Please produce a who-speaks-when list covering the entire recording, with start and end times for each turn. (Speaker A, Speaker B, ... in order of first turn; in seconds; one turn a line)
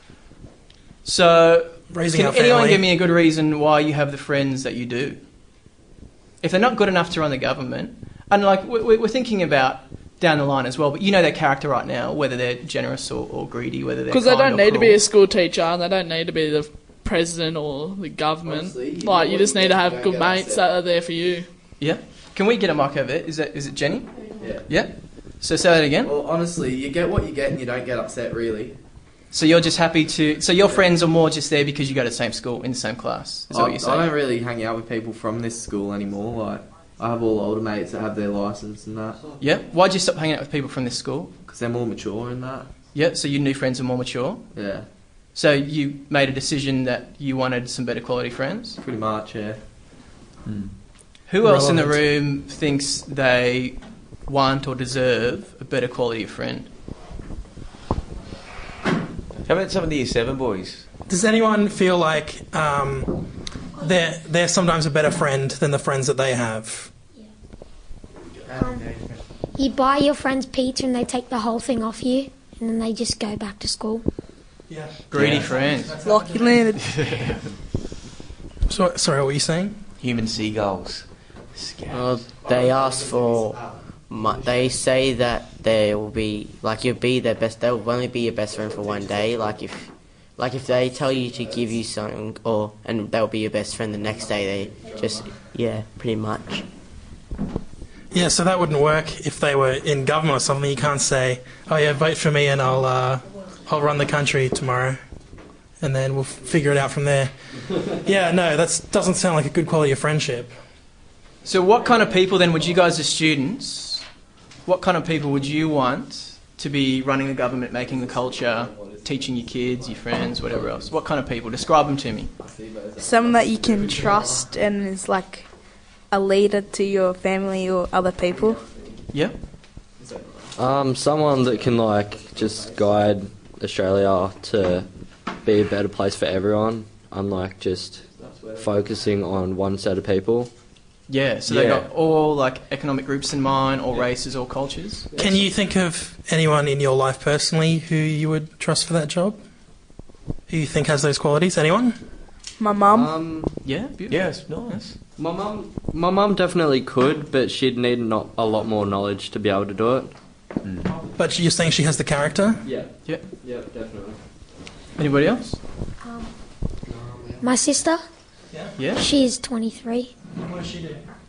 Speaker A: 1.0-5.2
Speaker B: 1.9-2.8
Speaker A: 6.4-15.0
Speaker C: 14.1-21.5
Speaker D: 18.4-20.6
Speaker A: 21.8-24.2
Speaker D: 24.4-24.7
Speaker A: 24.7-26.1
Speaker D: 26.0-28.7
Speaker A: 29.3-34.1
Speaker D: 33.5-39.2
Speaker A: 39.4-41.3
Speaker D: 41.5-42.7
Speaker A: 42.9-44.4
Speaker D: 44.5-44.8
Speaker A: 45.3-48.8
Speaker D: 48.8-49.6
Speaker E: 50.5-50.7
Speaker A: 51.3-56.7
Speaker B: 51.4-51.9
Speaker E: 59.5-60.8
Speaker B: 61.1-63.2
Speaker B: 63.8-66.9
Speaker F: 68.5-68.8
Speaker F: 69.5-74.0
Speaker B: 74.7-76.7
Speaker A: 75.1-76.0
Speaker E: 75.2-75.5
Speaker G: 76.0-77.0
Speaker A: 76.9-77.3
Speaker B: 78.7-79.8
Speaker E: 80.0-82.1
Speaker H: 81.9-96.7
Speaker B: 98.1-105.0
Speaker B: 105.8-107.3
Speaker B: 107.8-110.5
Speaker A: 111.4-114.0
Speaker A: 114.7-122.3
Speaker D: 117.9-119.3
Speaker D: 122.4-124.5
Speaker G: 123.0-125.5
Speaker G: 126.1-128.6
Speaker D: 128.5-128.9
Speaker D: 130.0-130.5
Speaker I: 130.6-134.9
Speaker I: 135.4-138.0
Speaker D: 138.2-138.7
Speaker I: 138.6-140.5
Speaker A: 141.1-145.1
Speaker E: 141.5-141.9
Speaker D: 145.1-145.4
Speaker B: 145.2-149.4
Speaker B: 150.5-151.9
Speaker G: 152.6-153.1
Speaker I: 152.9-153.5
Speaker A: 153.6-154.8
Speaker E: 154.1-154.9
Speaker I: 155.2-160.1
Speaker E: 160.6-160.9
Speaker B: 160.9-162.6
Speaker I: 162.6-164.2
Speaker A: 165.0-165.6
Speaker F: 166.0-166.3
Speaker I: 166.9-167.4
Speaker F: 167.4-168.0
Speaker A: 168.8-169.0
Speaker F: 168.9-170.1
Speaker B: 170.4-171.0